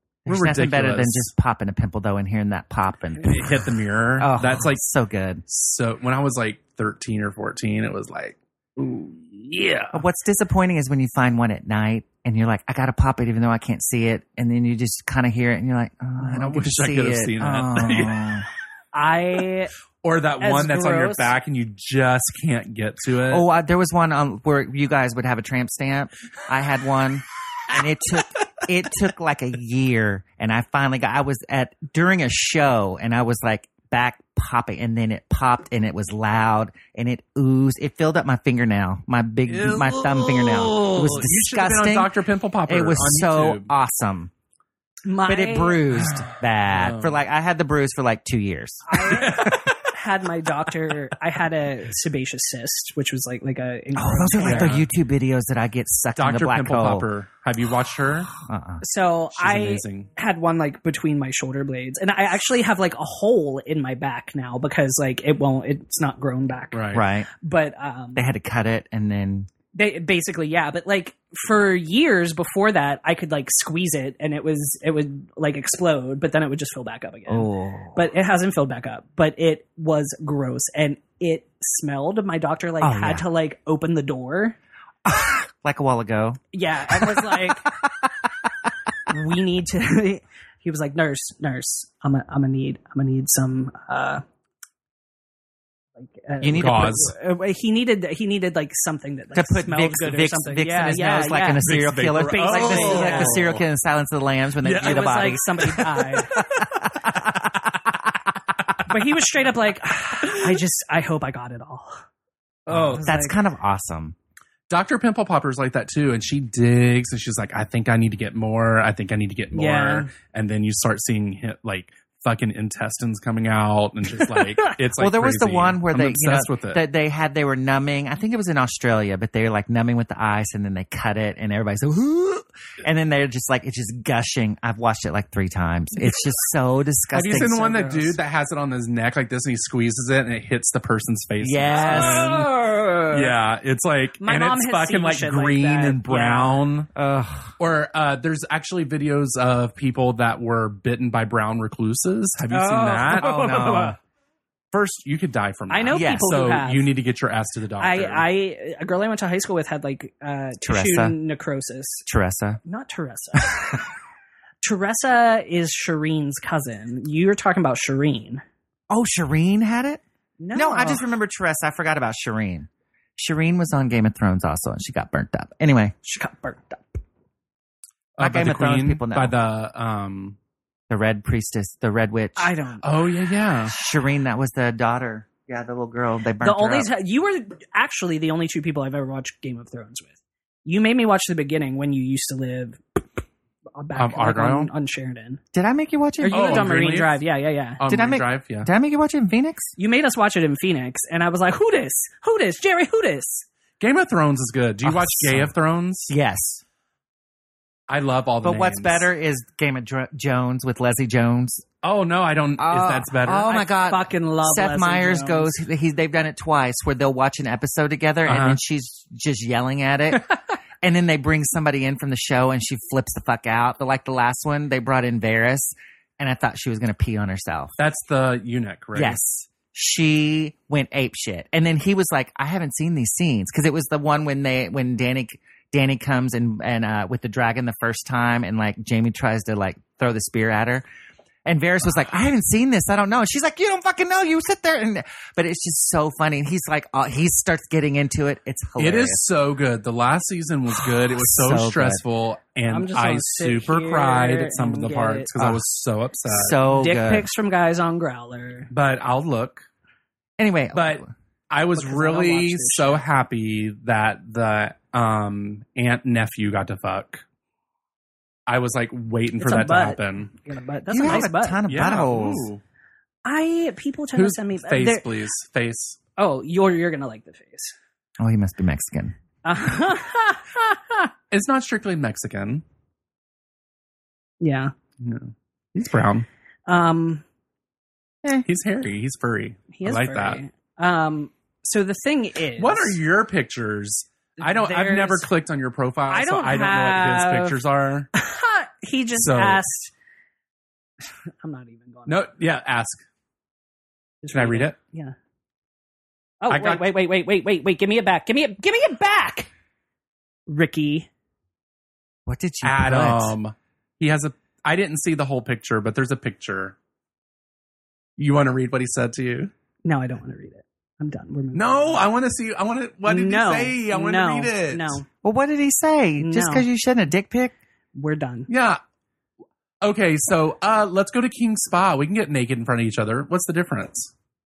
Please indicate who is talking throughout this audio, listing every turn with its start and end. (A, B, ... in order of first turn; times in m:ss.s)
0:00.2-0:03.6 A
0:00.3-0:01.3 B
0:03.2-0:04.8 B
0:04.2-0:05.4 A
0:05.5-0:10.0 B
0:09.9-0:18.4 A
0:16.2-0:18.4 B
0:18.9-0:19.7 C
0:20.0-0:23.4 B
0:20.4-0:21.3 C
0:23.3-0:42.1 A
0:39.5-0:43.7 B
0:42.7-0:44.3 A
0:45.1-0:45.8 C
0:45.3-0:49.5 A
0:46.1-0:47.2 B
0:48.9-0:54.8 C
0:49.1-0:49.9 B
0:53.9-0:57.1 A
0:54.4-0:54.9 B
0:56.2-0:58.3 B
0:58.4-0:58.8 A
0:58.8-1:08.3 C
0:59.3-1:00.1 B
1:06.7-1:07.0 B
1:06.9-1:07.3 A
1:08.2-1:09.5 A
1:09.7-1:24.6 C
1:17.3-1:18.1 A
1:22.8-1:23.3 A
1:25.0-1:27.5 A
1:26.5-1:27.7 C
1:29.1-1:34.2 C
1:36.0-1:41.6 C
1:36.4-1:36.9 A
1:36.5-1:37.1 B
1:39.3-1:45.6 A
1:41.6-1:43.6 B
1:42.2-1:43.4 C
1:44.6-1:46.4 B
1:44.8-1:46.5 C
1:46.7-1:47.9 A
1:48.9-1:52.0 C
1:52.7-1:53.0 B
1:52.7-1:53.4 C
1:53.0-1:54.1 A
1:54.7-2:06.8 B
1:59.5-2:00.1 C
2:05.0-2:18.1 A
2:17.1-2:22.4 B
2:21.4-2:23.2 A
2:21.7-2:23.1 C
2:23.1-2:26.9 B
2:24.2-2:26.6 C
2:26.9-2:27.5 A
2:27.6-2:34.0 B
2:32.5-2:33.9 C
2:33.0-2:33.9 A
2:34.7-2:38.3 B
2:35.7-2:36.9 C
2:35.9-2:36.3 A
2:37.8-2:42.0 C
2:40.6-2:41.2 A
2:42.0-2:42.6 A
2:42.6-2:43.8 C
2:44.6-2:48.4 C
2:48.9-2:50.0 A
2:50.4-2:51.0 C
2:50.5-2:55.9 A
2:56.0-2:57.0 C
2:58.2-3:00.4 B
2:58.2-2:59.3 A
3:00.9-3:02.5 A
3:02.4-3:02.9 C
3:02.8-3:03.7 B
3:03.7-3:06.9 A
3:06.4-3:13.0 C
3:13.8-3:15.4 C
3:14.0-3:14.7 B
3:15.5-3:16.6 A
3:16.2-3:17.8 C
3:16.2-3:17.2 B
3:17.8-3:18.7 B
3:17.9-3:19.7 A
3:19.8-3:23.4 C
3:23.8-3:26.1 B
3:24.8-3:25.5 A
3:26.1-3:26.6 A
3:27.9-3:29.1 B
3:28.4-3:31.6 A
3:31.8-3:33.6 B
3:32.6-3:47.8 A
3:33.5-3:35.6 C
3:38.2-3:38.6 B
3:47.8-3:49.2 B
3:48.9-4:00.8 A
4:01.4-4:09.2 A
4:08.8-4:16.6 B
4:10.8-4:12.0 A
4:12.7-4:15.3 C
4:16.3-4:17.3 A
4:16.6-4:18.7 C
4:18.7-4:19.7 B
4:20.4-4:21.0 A
4:20.7-4:27.2 B
4:21.8-4:23.0 C
4:28.5-4:30.4 B
4:29.4-4:31.6 C
4:30.9-4:32.5 A
4:31.0-4:32.6 B
4:33.2-4:35.1 C
4:34.1-4:36.0 B
4:36.2-4:37.7 C
4:38.2-4:39.1 A
4:39.4-4:41.1 C
4:41.3-4:42.6 B
4:44.4-4:44.7 C
4:45.0-4:46.2 B
4:46.7-4:47.2 C
4:48.4-4:50.4 B
4:49.7-4:53.0 C
4:52.6-4:58.1 B
4:54.4-4:55.3 C
4:56.1-4:57.6 C
4:58.1-4:59.9 C
4:59.2-4:59.6 B
5:01.4-5:02.3 C
5:02.1-5:03.0 B
5:04.2-5:05.1 C
5:04.3-5:04.8 B
5:06.4-5:09.5 C
5:06.5-5:06.9 B
5:10.5-5:11.1 C
5:12.2-5:13.4 A
5:12.6-5:16.8 B
5:18.2-5:19.5 B
5:19.8-5:22.0 C
5:21.5-5:25.0 B
5:23.0-5:25.0 C
5:25.2-5:27.5 A
5:26.2-5:26.6 C
5:27.9-5:28.5 C
5:28.5-5:28.8 B
5:29.8-5:34.1 B